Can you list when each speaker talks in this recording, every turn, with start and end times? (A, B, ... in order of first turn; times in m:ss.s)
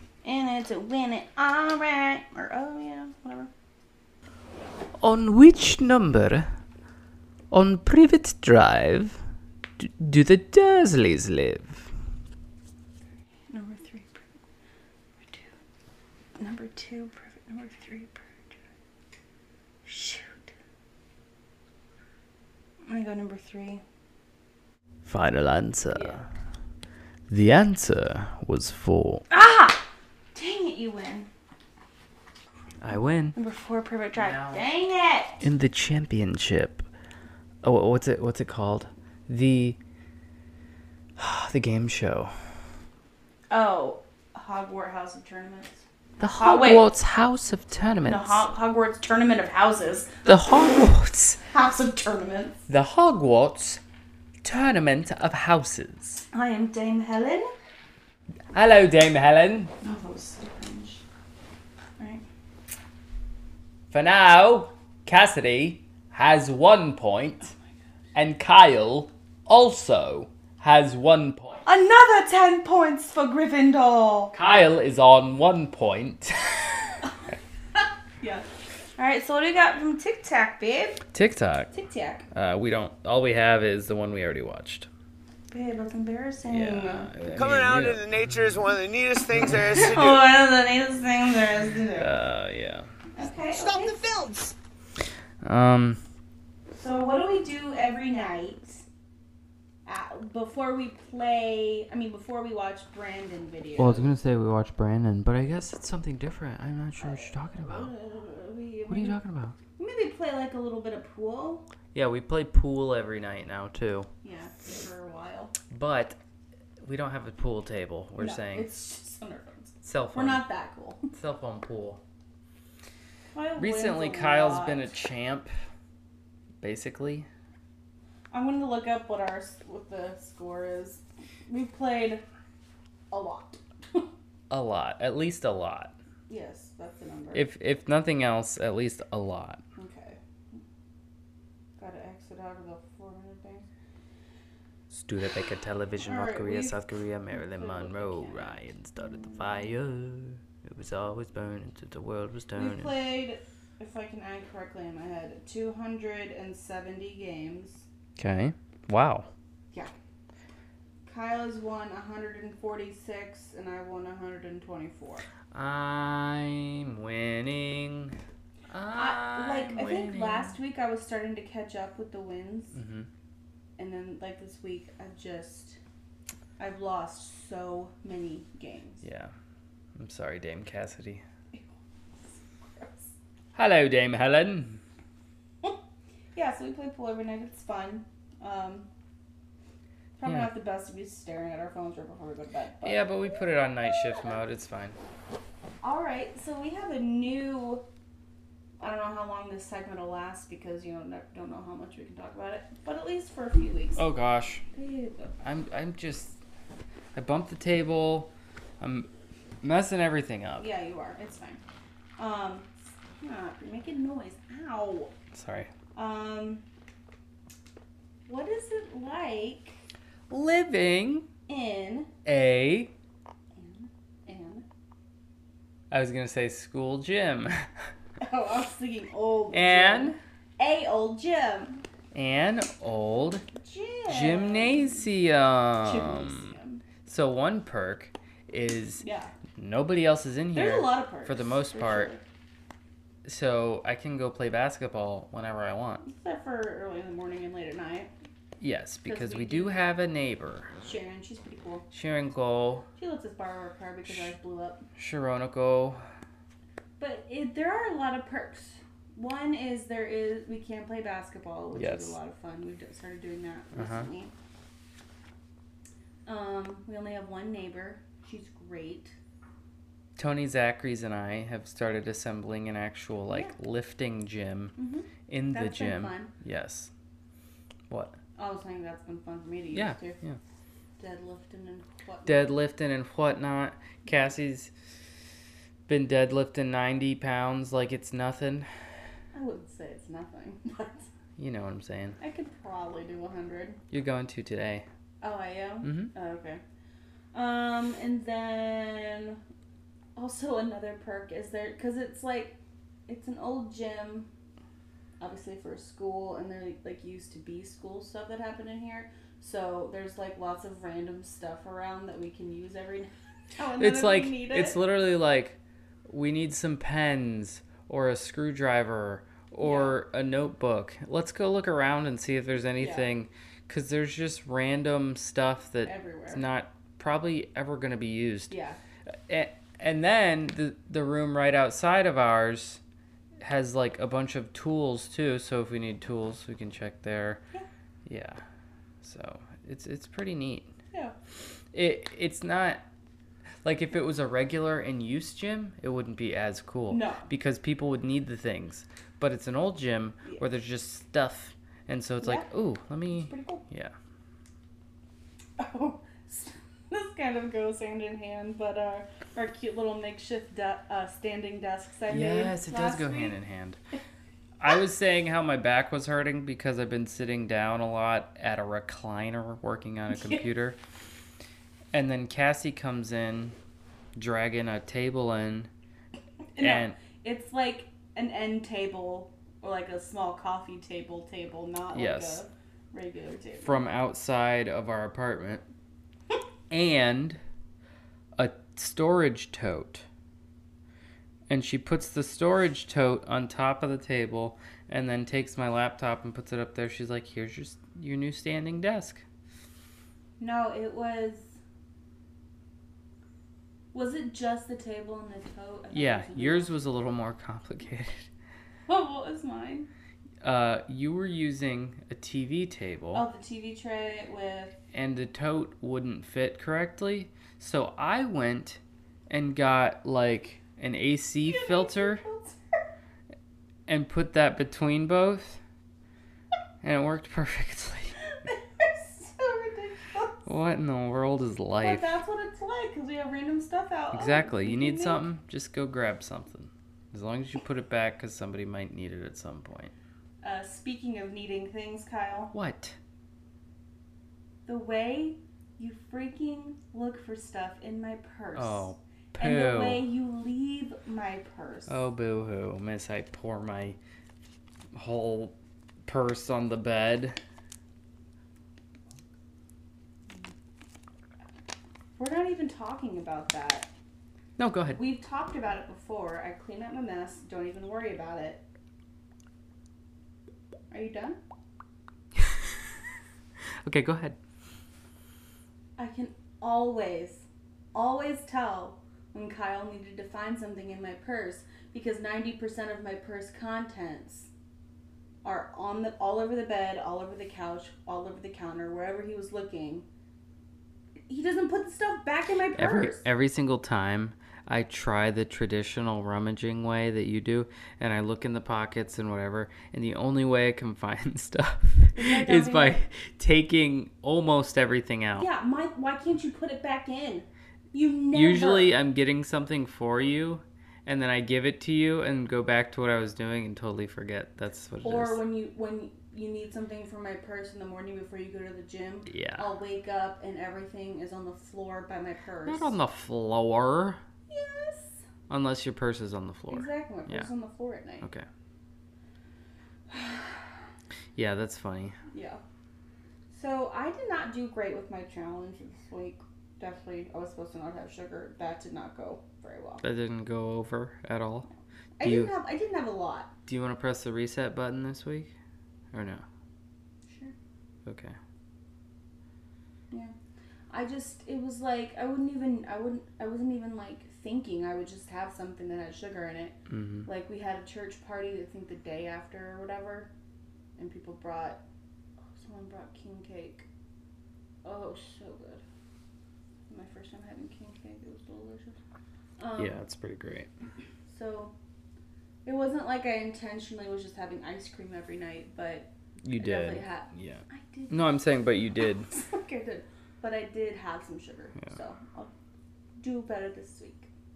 0:00.2-0:03.5 A
0:05.0-0:06.5 B
0:07.5-0:09.2 B
0:09.8-0:11.9 B
0:13.5-0:14.2 A
0:15.2-0:15.5 A
0:16.4-0:18.5 A
0:19.8-0:20.5 A
0:22.8-0:23.8 A
0:25.0-0:26.2 B
0:25.9-0:26.2 A
0:27.3-0:29.2 B
0:29.3-0:31.3 A
0:32.8-0:33.4 B
0:33.3-0:35.4 A
0:34.1-0:34.6 B
0:35.4-0:36.9 B
0:37.6-0:39.8 B
0:41.2-0:42.3 B
0:43.5-0:46.9 A
0:46.2-0:48.5 B
0:48.0-0:50.2 A
0:50.2-0:51.4 B
0:51.4-0:52.6 A
0:52.7-0:53.8 B
0:54.4-0:56.2 B
0:56.3-0:57.5 A
0:58.5-0:59.7 B
0:59.8-1:01.0 A
1:02.0-1:02.2 A
1:03.9-1:07.5 B
1:08.1-1:11.6 B
1:11.6-1:14.3 A
1:14.3-1:17.0 B
1:17.8-1:18.4 A
1:19.0-1:21.0 A
1:21.1-1:21.7 B
1:21.7-1:22.2 A
1:22.3-1:24.9 B
1:25.5-1:27.1 A
1:26.5-1:28.6 B
1:27.4-1:30.2 C
1:29.5-1:32.1 A
1:32.0-1:32.9 B
1:33.2-1:34.0 A
1:33.5-1:34.6 C
1:35.4-1:36.0 B
1:36.7-1:38.8 A
1:39.8-1:44.1 A
1:43.8-1:47.9 B
1:47.0-1:49.2 A
1:48.9-1:49.6 B
1:49.8-1:51.7 A
1:51.9-1:54.1 B
1:54.2-1:55.5 A
1:55.7-1:56.2 B
1:56.8-1:58.7 B
1:58.2-2:01.1 A
1:59.8-2:00.4 B
2:01.1-2:02.0 B
2:03.3-2:04.9 A
2:03.6-2:05.5 B
2:06.6-2:07.3 B
2:08.3-2:12.2 A
2:13.1-2:14.1 A
2:14.5-2:15.9 B
2:16.3-2:17.5 A
2:17.3-2:19.6 B
2:19.8-2:20.6 A
2:21.8-2:23.7 A
2:24.9-2:32.9 B
2:26.0-2:26.8 A
2:27.3-2:29.6 A
2:32.5-2:37.8 A
2:38.2-2:39.3 B
2:41.0-2:45.2 A
2:45.5-2:48.2 B
2:48.7-2:50.6 B
2:48.9-2:52.7 A
2:52.7-2:53.1 B
2:53.8-2:55.8 A
2:56.6-2:59.0 A
2:59.0-2:59.3 B
3:00.0-3:01.2 B
3:01.5-3:03.1 A
3:03.5-3:04.8 B
3:06.3-3:08.9 A
3:10.2-3:13.2 A
3:12.8-3:15.0 B
3:15.8-3:17.8 A
3:18.8-3:24.0 A
3:24.0-3:24.6 B
3:24.7-3:25.3 A
3:25.4-3:26.4 B
3:27.1-3:29.1 B
3:29.6-3:30.7 B
3:30.6-3:31.6 A
3:32.2-3:32.7 A
3:33.2-3:35.1 A
3:35.3-3:35.7 B
3:36.0-3:36.6 A
3:38.3-3:39.8 A
3:40.3-3:41.3 B
3:41.5-3:42.1 A
3:42.2-3:42.9 B
3:43.6-3:44.6 A
3:45.9-3:47.6 B
3:48.2-3:51.8 A
3:49.5-3:50.2 B
3:52.1-3:53.4 B
3:53.5-3:55.1 A
3:54.1-3:59.0 B
3:55.8-3:56.8 A
3:59.0-3:59.3 A
3:59.6-4:02.1 B
4:00.5-4:02.2 A
4:03.2-4:06.0 B
4:06.0-4:08.1 A
4:08.6-4:10.7 B
4:09.0-4:09.8 A
4:10.8-4:11.8 A
4:11.9-4:12.9 B
4:13.0-4:14.8 A
4:15.0-4:16.0 B
4:17.0-4:24.3 A
4:21.7-4:22.1 B
4:23.7-4:24.1 B
4:26.2-4:29.1 A
4:30.2-4:34.8 B
4:34.8-4:36.3 A
4:35.3-4:36.9 B
4:37.9-4:38.2 B
4:38.4-4:40.2 A
4:39.7-4:40.4 B
4:41.0-4:42.5 A
4:42.2-4:44.7 B
4:45.9-4:48.7 B
4:49.3-4:51.1 A
4:51.4-4:52.2 B
4:52.2-4:53.8 A
4:53.9-4:54.9 B
4:55.2-4:56.6 A
4:55.8-4:56.1 B
4:57.3-4:59.4 A
5:00.2-5:02.6 A
5:03.1-5:04.3 A
5:05.2-5:14.8 A
5:13.8-5:28.5 B
5:19.6-5:20.0 A
5:22.8-5:23.1 A
5:25.8-5:26.4 A
5:28.5-5:28.8 A
5:29.3-5:32.8 B
5:33.4-5:37.4 B
5:38.0-5:38.4 B
5:39.0-5:40.7 B
5:41.7-5:42.8 B
5:43.6-5:53.9 B
5:46.9-5:47.3 A
5:52.2-5:52.5 A
5:53.1-5:53.6 A
5:55.6-6:03.3 A
6:02.1-6:03.8 B
6:04.6-6:10.8 B
6:11.9-6:13.6 B
6:14.2-6:15.7 B
6:16.6-6:23.8 A
6:16.6-6:17.0 B
6:21.9-6:22.4 B
6:23.6-6:25.6 B
6:26.7-6:27.4 B
6:28.4-6:30.0 B
6:31.5-6:39.2 B
6:40.4-6:41.6 A
6:43.9-6:46.7 A
6:45.9-6:48.3 B
6:48.9-6:49.9 A
6:50.4-6:53.2 B
6:53.1-6:54.8 A
6:54.9-7:02.2 B
7:01.4-7:02.6 A
7:03.9-7:05.6 B
7:06.8-7:08.2 B
7:08.4-7:10.5 A
7:10.4-7:12.1 B
7:11.8-7:15.2 A
7:14.1-7:19.9 B
7:20.4-7:22.5 A
7:22.5-7:23.0 B
7:24.6-7:32.0 A
7:28.5-7:30.0 B
7:31.9-7:34.0 B
7:34.9-7:35.5 B
7:36.0-7:37.4 B
7:42.2-7:43.9 A
7:44.6-7:45.0 B
7:44.9-7:48.6 A
7:50.9-7:51.4 A
7:53.8-7:54.4 B
7:56.0-8:04.5 A
8:05.4-8:10.0 A
8:11.3-8:13.3 A
8:12.8-8:25.5 B
8:22.2-8:23.0 A
8:25.4-8:28.9 A
8:28.3-8:35.4 B
8:35.0-8:43.0 A
8:39.3-8:39.7 B
8:42.6-8:44.2 B
8:44.5-8:45.2 A
8:45.5-8:47.5 B
8:46.7-8:48.2 A
8:50.1-8:50.7 A
8:51.4-8:52.2 B
8:52.3-8:52.6 A
8:53.5-9:00.0 A
9:00.0-9:01.7 B
9:02.2-9:03.5 A
9:02.2-9:02.5 B
9:03.7-9:05.5 B
9:06.1-9:06.4 B
9:07.3-9:07.5 A
9:08.0-9:08.4 B
9:10.9-9:20.3 A
9:16.9-9:17.3 B
9:21.0-9:21.8 A
9:22.5-9:23.8 A
9:24.8-9:25.8 A
9:26.9-9:29.0 A
9:29.6-9:30.0 A
9:29.8-9:30.7 B
9:31.3-9:31.7 A
9:32.6-9:38.4 A
9:36.4-9:39.3 B
9:39.3-9:42.5 A
9:43.2-9:44.3 A